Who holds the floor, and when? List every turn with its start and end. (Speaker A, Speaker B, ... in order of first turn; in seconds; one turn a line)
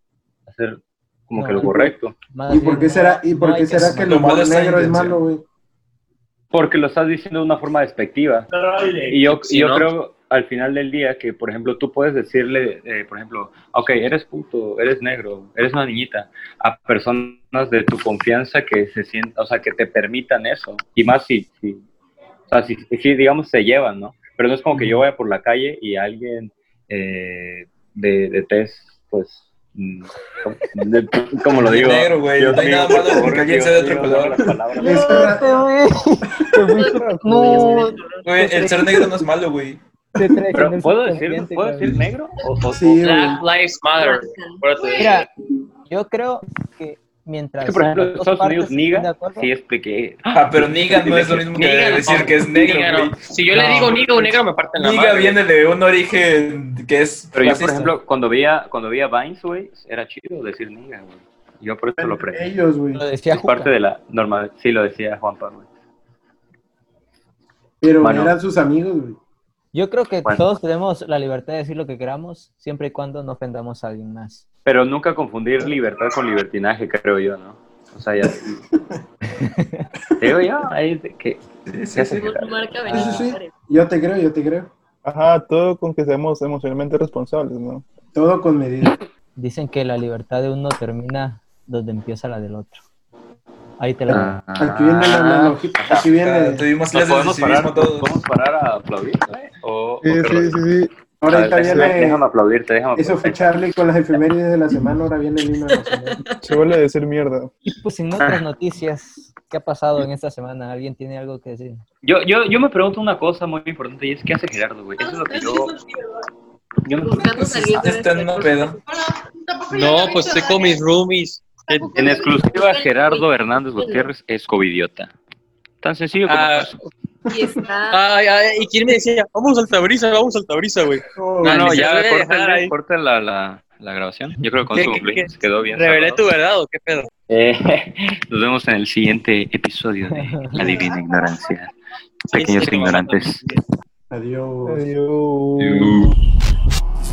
Speaker A: 0.5-2.1
Speaker B: 1.3-4.2
Speaker C: 2.5-5.4
Speaker D: 3.7-5.2
Speaker A: 6.5-8.5
Speaker A: 9.1-21.9
Speaker E: 9.1-9.9
Speaker A: 22.5-35.4
Speaker D: 31.5-34.5
Speaker C: 34.8-35.5
Speaker B: 34.8-39.2
Speaker F: 37.5-38.4
Speaker D: 38.2-39.8
Speaker B: 40.2-42.0
Speaker A: 40.5-43.4
Speaker C: 42.7-43.4
Speaker E: 43.0-45.1
Speaker F: 44.0-45.2
Speaker B: 45.0-45.3
Speaker B: 45.9-49.5
Speaker A: 47.6-51.5
Speaker D: 50.3-54.1
Speaker E: 51.5-55.4
Speaker D: 54.8-57.9
Speaker A: 57.3-62.5
Speaker B: 57.5-57.9
Speaker C: 62.0-63.0
Speaker B: 62.9-63.7
Speaker A: 63.3-65.7
Speaker C: 67.8-69.2
Speaker A: 68.0-68.3
Speaker B: 69.7-74.4
Speaker A: 74.7-78.6
Speaker B: 79.4-79.9
Speaker A: 80.2-81.4
Speaker D: 81.7-82.3
Speaker A: 81.9-83.1
Speaker F: 82.2-83.5
Speaker C: 82.9-84.7
Speaker B: 82.9-83.2
Speaker G: 85.0-87.8
Speaker C: 88.1-89.0
Speaker B: 89.4-92.8
Speaker B: 93.8-94.4
Speaker A: 94.1-96.1
Speaker C: 94.1-96.7
Speaker D: 96.1-98.2
Speaker A: 96.9-100.6
Speaker G: 100.0-100.9
Speaker C: 101.2-102.2
Speaker A: 101.3-103.8
Speaker G: 101.5-102.0
Speaker C: 103.0-106.2
Speaker G: 106.4-107.5
Speaker B: 107.7-111.8
Speaker A: 112.0-115.7
Speaker A: 116.8-117.9
Speaker F: 117.0-118.8
Speaker D: 117.7-118.8
Speaker E: 119.7-121.4
Speaker A: 121.9-125.1
Speaker F: 122.4-123.2
Speaker F: 123.8-124.1
Speaker A: 125.8-126.8
Speaker E: 126.3-126.7
Speaker F: 127.3-128.0
Speaker E: 127.9-131.0
Speaker C: 131.2-131.7
Speaker A: 131.4-136.2
Speaker E: 131.5-132.7
Speaker E: 134.7-137.1
Speaker A: 137.3-141.7
Speaker B: 140.1-140.8
Speaker A: 142.3-143.4
Speaker E: 142.3-143.2
Speaker C: 144.1-144.9
Speaker G: 144.7-146.1
Speaker A: 145.6-146.1